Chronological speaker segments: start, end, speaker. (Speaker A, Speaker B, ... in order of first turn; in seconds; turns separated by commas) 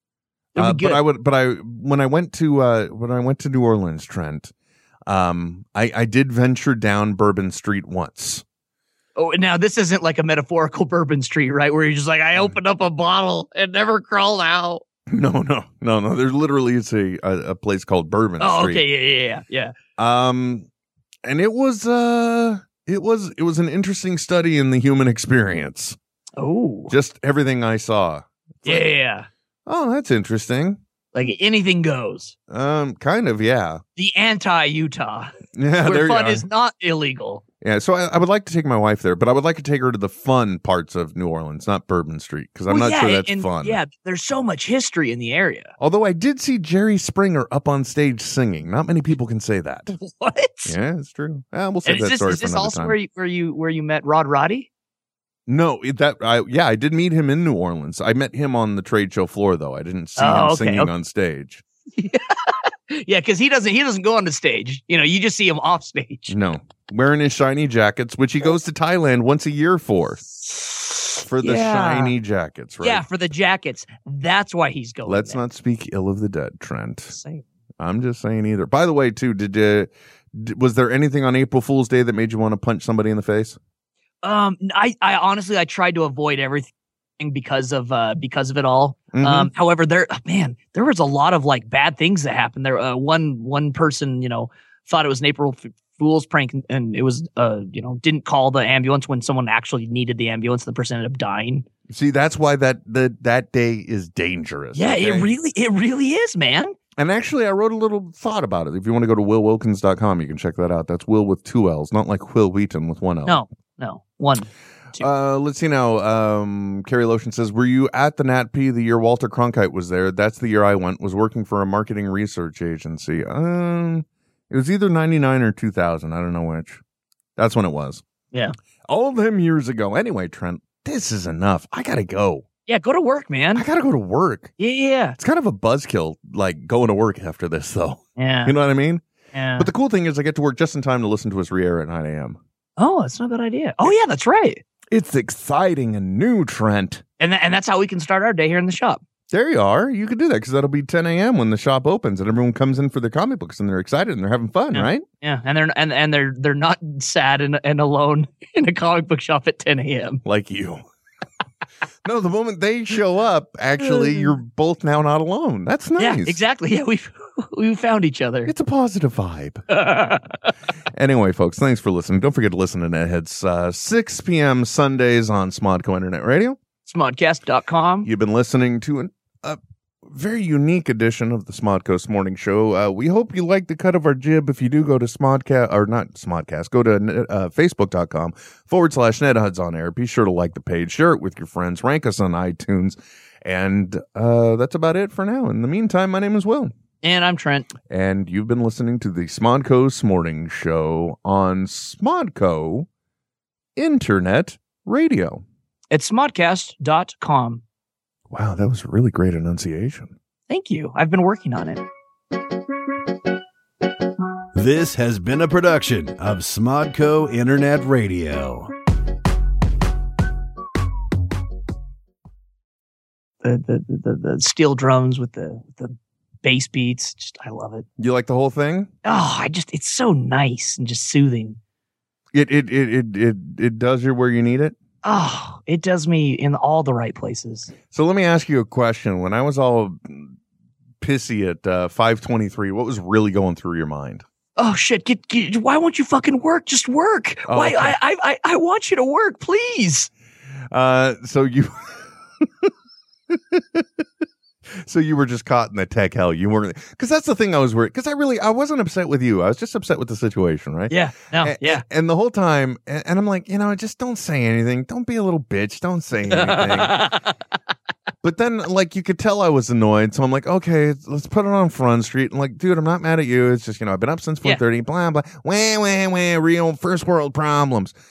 Speaker A: 0.5-1.0, Speaker B: 0.6-4.5, Speaker B: 5.0-8.4, Speaker A: 9.2-14.8, Speaker B: 15.1-18.8, Speaker A: 18.4-19.7, Speaker B: 20.0-20.7, Speaker B: 21.2-26.0, Speaker A: 26.4-26.9, Speaker B: 26.9-28.9, Speaker A: 28.6-29.3, Speaker B: 29.6-30.8, Speaker A: 31.1-32.3, Speaker B: 32.5-33.8, Speaker A: 34.0-35.3, Speaker B: 35.5-36.4, Speaker A: 35.8-37.4, Speaker B: 37.6-43.8, Speaker A: 42.7-45.7, Speaker B: 45.8-50.0, Speaker A: 49.9-50.7, Speaker B: 50.6-53.0, Speaker A: 51.9-54.7, Speaker B: 55.5-61.6, Speaker A: 60.2-60.9, Speaker A: 62.0-66.3, Speaker B: 66.3-70.2, Speaker A: 70.5-72.1, Speaker B: 71.2-73.0, Speaker A: 72.8-75.4, Speaker B: 75.0-77.2, Speaker A: 77.1-77.4, Speaker B: 77.8-83.6, Speaker A: 84.2-101.7, Speaker B: 89.1-89.5, Speaker B: 101.9-105.3, Speaker A: 104.7-106.7, Speaker B: 107.0-113.4, Speaker A: 113.2-115.1, Speaker B: 115.0-126.8, Speaker B: 127.4-128.0, Speaker B: 128.9-132.4, Speaker A: 132.7-133.6, Speaker B: 133.5-134.5, Speaker A: 134.6-135.2, Speaker B: 135.2-139.0, Speaker A: 138.2-138.5, Speaker A: 139.3-139.7, Speaker B: 139.6-142.4, Speaker A: 142.8-144.6, Speaker B: 144.9-147.0, Speaker A: 147.2-149.0, Speaker B: 149.3-155.0, Speaker A: 154.7-160.2, Speaker B: 160.2-160.8, Speaker B: 162.0-166.4, Speaker A: 163.8-164.3, Speaker A: 166.0-168.5, Speaker B: 168.4-169.6, Speaker A: 169.7-170.3, Speaker B: 170.9-176.6, Speaker A: 176.8-178.1, Speaker B: 178.0-196.7, Speaker A: 197.0-197.7, Speaker B: 197.9-202.9, Speaker B: 203.8-205.4, Speaker A: 205.9-207.6, Speaker B: 208.3-210.1, Speaker A: 210.5-211.8, Speaker C: 214.5-218.7, Speaker A: 223.4-227.8, Speaker B: 228.0-228.9, Speaker A: 229.0-231.6, Speaker B: 232.3-234.8, Speaker A: 235.0-237.7, Speaker B: 237.9-240.3, Speaker B: 241.0-244.2, Speaker A: 244.6-250.1, Speaker B: 247.5-247.9, Speaker B: 250.7-252.7, Speaker B: 253.3-254.1, Speaker B: 254.7-267.0, Speaker A: 260.9-261.8, Speaker A: 266.3-267.3, Speaker B: 268.2-277.9